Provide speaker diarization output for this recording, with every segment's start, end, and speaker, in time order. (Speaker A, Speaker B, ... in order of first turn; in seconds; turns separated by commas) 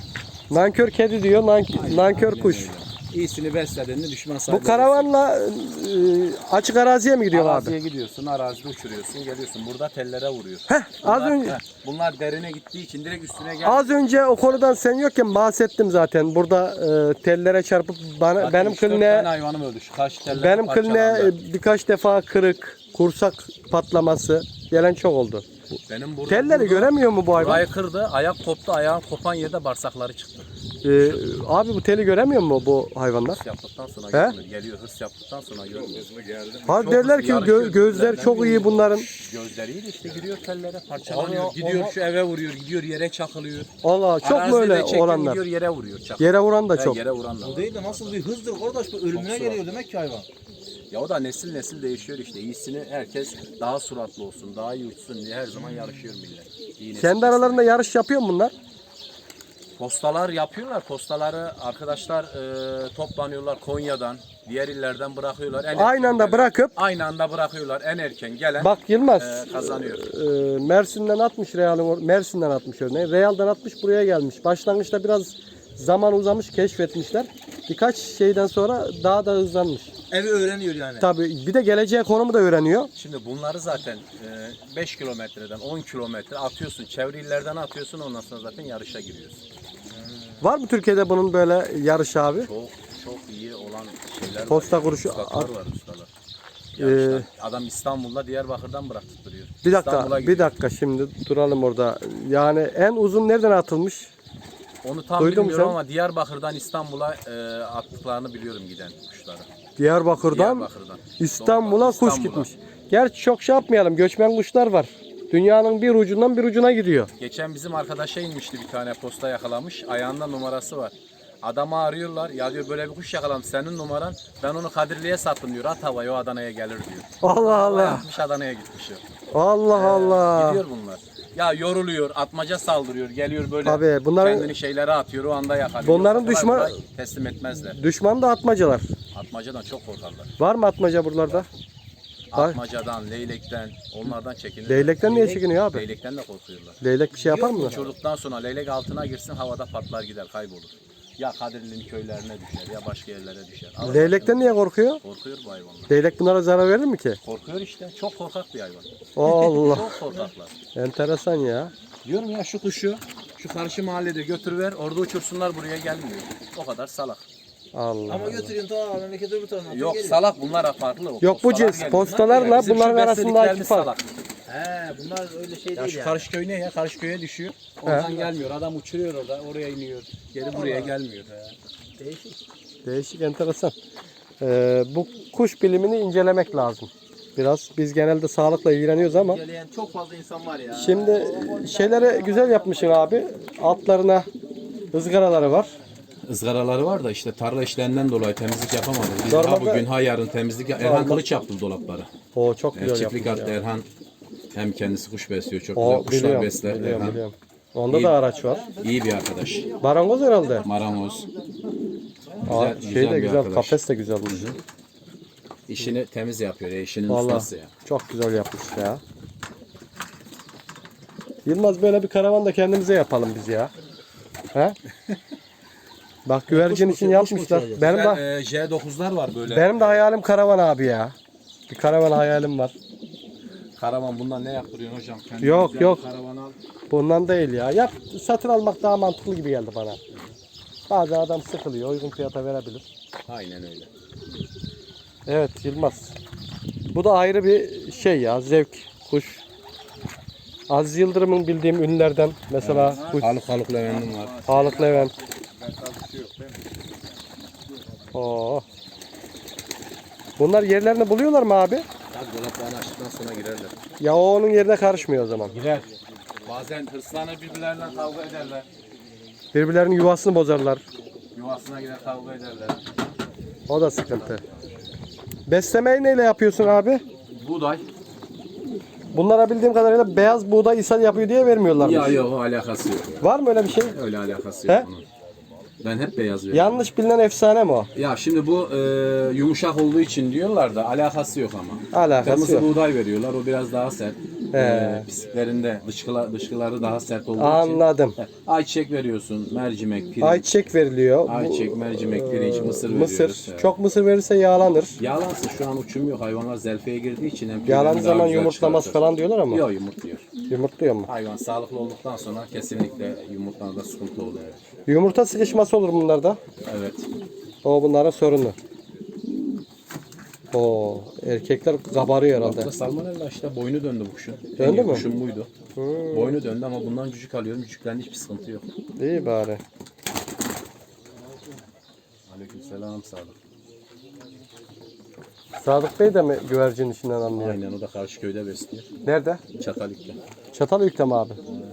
Speaker A: 0.5-2.7, Speaker B: 1.7-5.1, Speaker A: 4.5-7.8, Speaker B: 7.3-14.6, Speaker A: 10.7-11.6, Speaker A: 13.6-19.3, Speaker B: 18.4-21.3, Speaker A: 20.3-27.6, Speaker B: 25.9-30.5, Speaker A: 30.8-33.4, Speaker B: 33.4-43.7, Speaker A: 36.7-39.1, Speaker C: 41.0-42.0, Speaker A: 43.8-45.4, Speaker B: 44.2-48.2, Speaker A: 46.2-47.0, Speaker C: 47.4-50.3, Speaker B: 49.1-49.7, Speaker B: 50.9-57.7, Speaker A: 57.0-58.5, Speaker B: 59.8-70.0, Speaker A: 65.7-66.7, Speaker A: 68.6-79.9, Speaker C: 80.1-81.1, Speaker A: 81.0-82.9, Speaker B: 83.0-89.4, Speaker A: 90.4-92.5, Speaker B: 92.4-96.1, Speaker A: 94.5-95.5, Speaker B: 96.8-100.5, Speaker A: 96.8-97.3, Speaker A: 99.6-104.1, Speaker B: 104.8-109.5, Speaker A: 105.2-105.8, Speaker A: 109.8-110.7, Speaker B: 110.2-112.5, Speaker A: 111.2-117.1, Speaker B: 117.2-129.1, Speaker A: 127.2-128.1, Speaker A: 129.3-130.6, Speaker B: 129.7-137.8, Speaker A: 133.6-134.5, Speaker A: 135.8-136.8, Speaker A: 137.7-138.8, Speaker B: 139.1-140.3, Speaker A: 140.4-141.5, Speaker B: 142.3-146.8, Speaker A: 144.7-145.8, Speaker A: 146.8-147.8, Speaker C: 147.2-147.7, Speaker B: 147.3-154.5, Speaker A: 153.8-155.0, Speaker B: 155.0-156.0, Speaker A: 155.9-157.2, Speaker B: 157.2-160.5, Speaker A: 159.2-159.9, Speaker A: 160.8-161.7, Speaker B: 162.1-167.2, Speaker A: 167.7-168.5, Speaker C: 168.1-170.2, Speaker B: 169.7-174.1, Speaker A: 171.2-173.9, Speaker C: 171.8-172.6, Speaker C: 174.5-176.2, Speaker B: 175.8-181.6, Speaker A: 177.8-178.3, Speaker C: 180.5-180.9, Speaker C: 182.0-182.4, Speaker A: 182.8-183.7, Speaker A: 184.4-189.4, Speaker C: 189.0-193.0, Speaker A: 190.7-194.3, Speaker A: 194.9-195.8, Speaker B: 196.2-202.1, Speaker A: 199.3-199.9, Speaker A: 200.8-201.2, Speaker A: 202.3-203.6, Speaker B: 202.8-203.9, Speaker B: 204.5-207.2, Speaker A: 205.8-208.7, Speaker B: 207.9-208.2, Speaker C: 208.4-211.4, Speaker B: 208.8-209.7, Speaker A: 209.8-210.7, Speaker B: 210.6-211.3, Speaker B: 212.4-214.6, Speaker A: 212.5-214.4, Speaker B: 215.7-217.7, Speaker A: 217.1-219.0, Speaker A: 221.5-223.7, Speaker A: 226.3-228.2, Speaker C: 226.5-227.8, Speaker B: 227.8-230.0, Speaker A: 229.5-231.1, Speaker A: 231.7-232.7, Speaker B: 233.8-236.6, Speaker A: 235.4-236.0, Speaker A: 236.9-240.0, Speaker A: 240.9-242.8, Speaker B: 243.3-243.9, Speaker A: 245.3-246.2, Speaker A: 246.9-249.4, Speaker A: 250.7-253.3, Speaker B: 252.6-254.8, Speaker A: 254.4-255.1, Speaker A: 258.1-258.6, Speaker A: 260.4-261.9, Speaker B: 262.1-263.8, Speaker A: 264.0-265.6, Speaker B: 265.5-265.9, Speaker B: 266.4-268.7, Speaker A: 269.5-270.8, Speaker B: 271.3-272.8, Speaker A: 273.7-274.4, Speaker A: 275.5-277.0, Speaker B: 277.4-277.9, Speaker A: 279.1-282.2, Speaker B: 281.8-285.0, Speaker A: 283.2-284.0, Speaker B: 285.8-286.8, Speaker A: 286.5-287.9, Speaker B: 287.9-300.5, Speaker A: 291.9-292.7, Speaker A: 294.5-295.1, Speaker A: 297.4-298.2, Speaker A: 300.2-305.0, Speaker B: 301.3-303.8, Speaker B: 305.0-310.2, Speaker A: 307.7-309.6, Speaker A: 310.5-311.1, Speaker B: 311.1-314.6, Speaker A: 314.9-316.4, Speaker B: 316.7-317.1, Speaker A: 317.6-318.6, Speaker A: 320.5-322.7, Speaker B: 322.3-325.5, Speaker A: 324.6-325.1, Speaker A: 325.8-326.4, Speaker B: 326.1-328.7, Speaker A: 329.0-329.6, Speaker B: 332.3-333.4, Speaker A: 335.6-337.6, Speaker B: 337.3-338.9, Speaker A: 339.1-339.4, Speaker B: 339.6-340.2, Speaker A: 340.5-341.4